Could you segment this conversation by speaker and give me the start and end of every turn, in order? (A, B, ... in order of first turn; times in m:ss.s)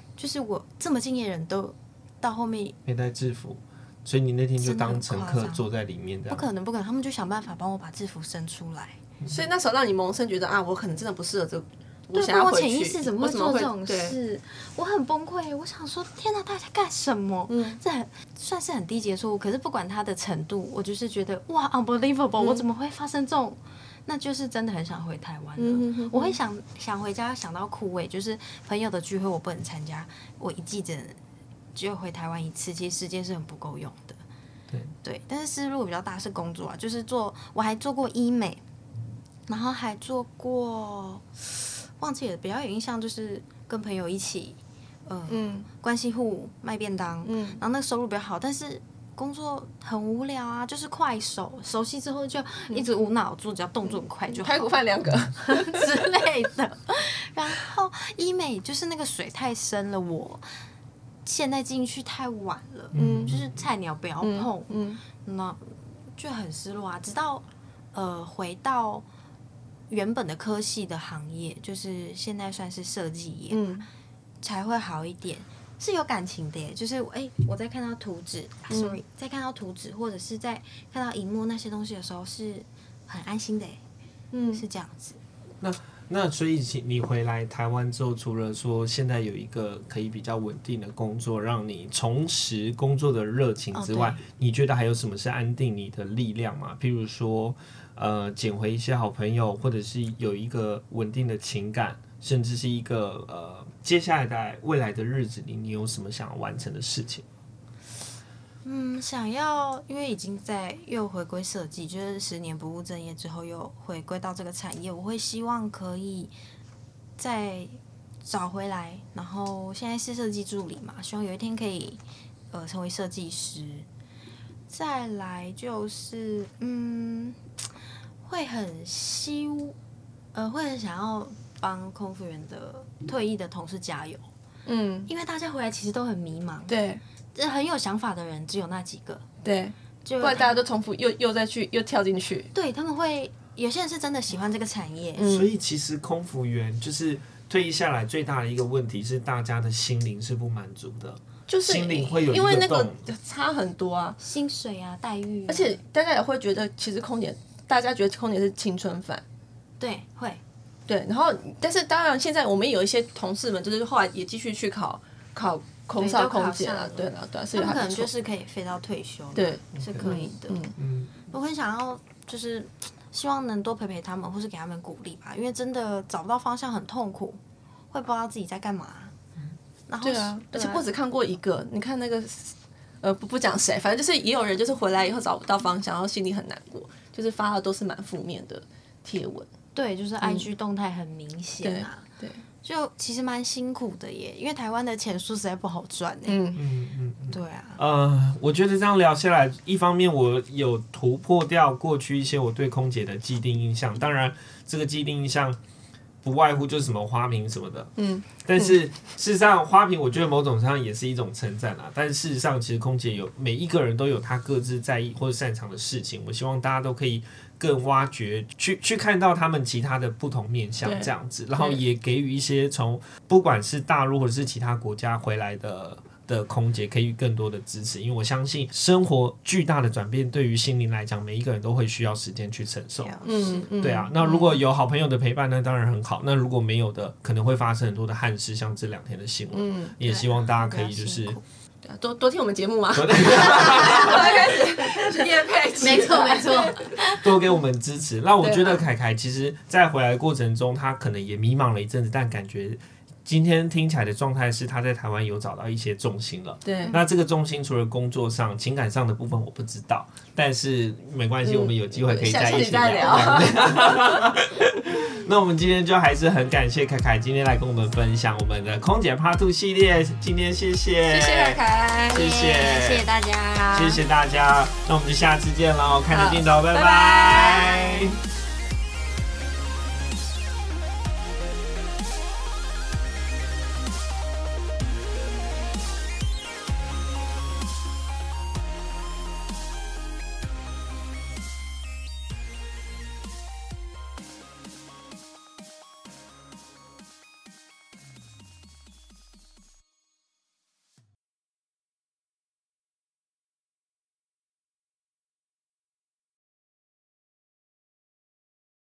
0:00.2-0:02.8 A
0:02.9-0:06.5 B
0:04.6-0:05.6 A
0:06.3-0:09.0 A
0:09.3-0:14.2 C
0:12.1-0:31.2 A
0:17.5-0:17.8 C
0:25.6-0:26.4 C
0:31.8-0:34.2 A
0:35.0-0:38.6 A
0:39.5-0:54.8 A
0:45.3-0:45.7 C
0:47.2-0:47.6 C
0:54.4-0:55.9 C
0:55.4-1:00.4 A
1:01.2-1:09.1 A
1:02.9-1:03.6 B
1:03.0-1:03.3 C
1:04.2-1:05.0 C
1:09.9-1:13.8 A
1:13.5-1:13.9 C
1:14.4-1:23.8 A
1:18.7-1:19.0 C
1:24.3-1:24.6 C
1:24.5-1:25.2 A
1:25.6-1:47.2 B
1:33.7-1:34.2 A
1:48.6-1:56.3 A
1:57.2-2:03.9 A
2:04.7-2:07.4 A
2:08.2-2:09.8 A
2:10.3-2:14.3 A
2:14.7-2:15.1 C
2:15.1-2:16.8 A
2:16.7-2:17.0 C
2:17.4-2:19.3 A
2:19.4-2:22.5 C
2:20.0-2:20.5 A
2:22.5-2:25.3 A
2:25.2-2:25.5 C
2:25.2-2:33.0 B
2:31.5-2:34.2 C
2:34.2-2:35.8 A
2:35.5-2:39.2 C
2:39.8-2:40.4 A
2:40.9-2:48.1 C
2:46.0-2:50.7 A
2:49.4-2:50.8 C
2:49.7-2:50.1 B
2:50.8-2:51.1 B
2:51.3-2:57.4 A
2:57.9-2:59.1 A
2:59.9-3:00.9 A
3:00.0-3:09.5 C
3:09.8-3:12.1 A
3:11.6-3:12.4 C
3:12.6-3:16.5 A
3:16.3-3:16.6 C
3:16.6-3:25.6 B
3:17.3-3:17.8 A
3:26.2-3:27.9 B
3:28.0-3:28.2 C
3:28.4-3:53.2 B
3:40.8-3:41.8 C
3:53.0-3:54.5 A
3:53.2-3:54.1 C
3:53.8-4:01.4 B
3:59.5-4:00.0 C
4:00.0-4:01.4 A
4:01.8-4:07.2 C
4:02.9-4:04.8 B
4:05.7-4:07.2 A
4:07.1-4:33.1 B
4:08.4-4:08.8 C
4:16.6-4:17.0 C
4:21.4-4:23.8 C
4:31.1-4:32.2 C
4:32.1-4:34.0 A
4:33.7-4:38.2 B
4:36.1-4:37.7 C
4:37.4-4:38.0 A